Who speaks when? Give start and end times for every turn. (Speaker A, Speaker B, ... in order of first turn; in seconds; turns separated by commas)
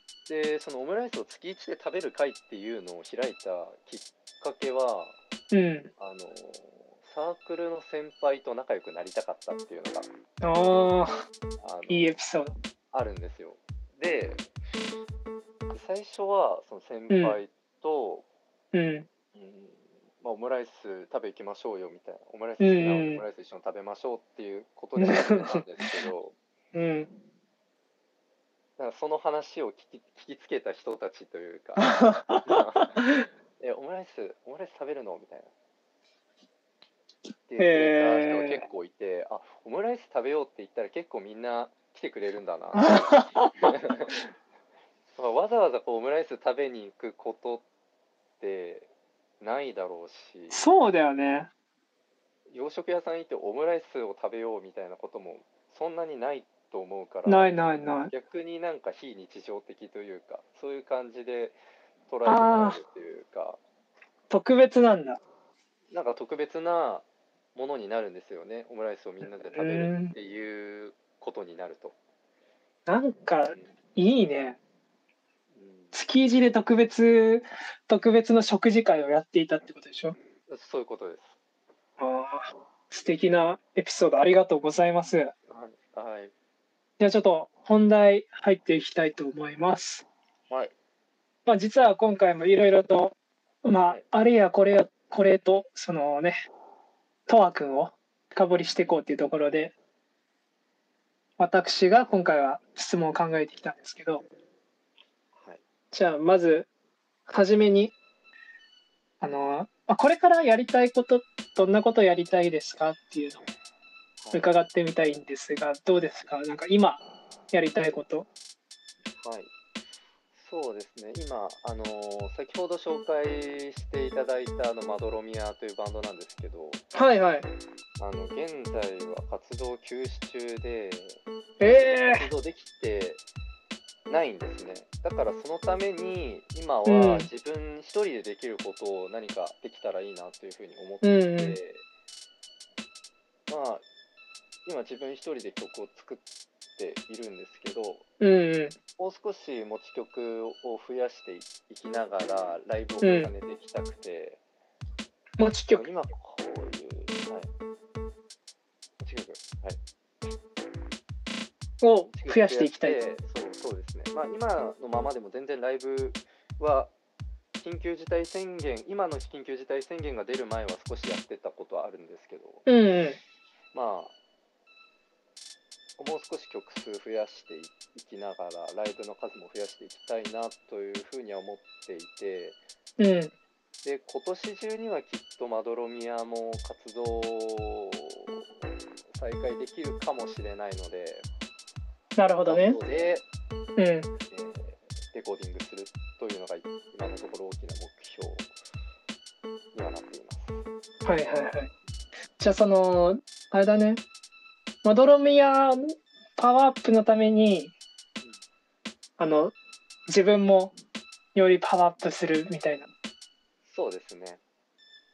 Speaker A: 0.3-5.2, Speaker B: 5.5-5.9, Speaker A: 6.0-10.9, Speaker B: 10.4-11.2, Speaker A: 11.6-12.1, Speaker B: 11.9-12.5, Speaker A: 12.9-14.5, Speaker A: 15.7-18.2, Speaker B: 17.1-17.4, Speaker B: 18.7-19.1, Speaker A: 19.3-26.3, Speaker B: 22.6-23.2, Speaker B: 25.0-25.6, Speaker B: 26.7-27.1, Speaker A: 28.8-33.0, Speaker B: 31.8-33.2, Speaker A: 33.6-35.5, Speaker A: 37.5-44.3, Speaker B: 37.6-38.6, Speaker B: 42.7-43.5, Speaker A: 45.1-47.6, Speaker A: 48.4-50.6, Speaker B: 50.5-51.5, Speaker A: 52.5-61.6, Speaker B: 57.2-58.1, Speaker A: 62.1-63.6, Speaker B: 62.2-62.8, Speaker B: 64.3-65.2, Speaker A: 65.9-72.0, Speaker B: 69.5-70.1, Speaker B: 72.8-74.6, Speaker A: 75.5-75.9, Speaker B: 75.9-80.2, Speaker A: 80.5-81.4, Speaker B: 82.0-85.3, Speaker A: 85.5-86.3, Speaker B: 87.0-90.0, Speaker A: 90.5-90.7, Speaker B: 91.5-96.3, Speaker B: 97.3-99.7, Speaker B: 101.4-104.2, Speaker A: 105.3-105.6, Speaker B: 105.9-106.7, Speaker B: 107.3-107.9, Speaker B: 109.2-113.4, Speaker A: 114.2-114.5, Speaker B: 114.3-118.3, Speaker A: 119.2-119.5, Speaker A: 120.3-126.8, Speaker B: 126.9-127.5, Speaker A: 128.0-133.2, Speaker B: 131.6-132.3, Speaker A: 134.1-141.8, Speaker B: 136.8-137.3, Speaker B: 141.0-141.6, Speaker A: 143.5-143.8, Speaker A: 144.7-146.2, Speaker A: 146.8-148.1, Speaker B: 148.2-148.8, Speaker A: 149.0-154.4, Speaker B: 153.0-153.3, Speaker B: 155.4-155.9, Speaker A: 155.7-157.5, Speaker A: 159.0-159.8, Speaker B: 161.8-163.0, Speaker A: 162.1-166.9, Speaker A: 167.6-172.7, Speaker B: 172.7-173.2, Speaker A: 173.7-174.1, Speaker A: 176.0-182.6, Speaker B: 183.0-183.3, Speaker A: 183.8-188.4, Speaker A: 189.1-191.3, Speaker B: 192.2-192.8, Speaker A: 192.4-193.2, Speaker B: 193.8-194.1, Speaker A: 194.3-198.5, Speaker A: 199.7-200.6, Speaker B: 201.0-201.7, Speaker B: 202.4-204.0, Speaker B: 204.8-207.7, Speaker B: 209.2-209.5, Speaker B: 210.1-210.7, Speaker B: 211.3-212.9, Speaker A: 213.6-214.4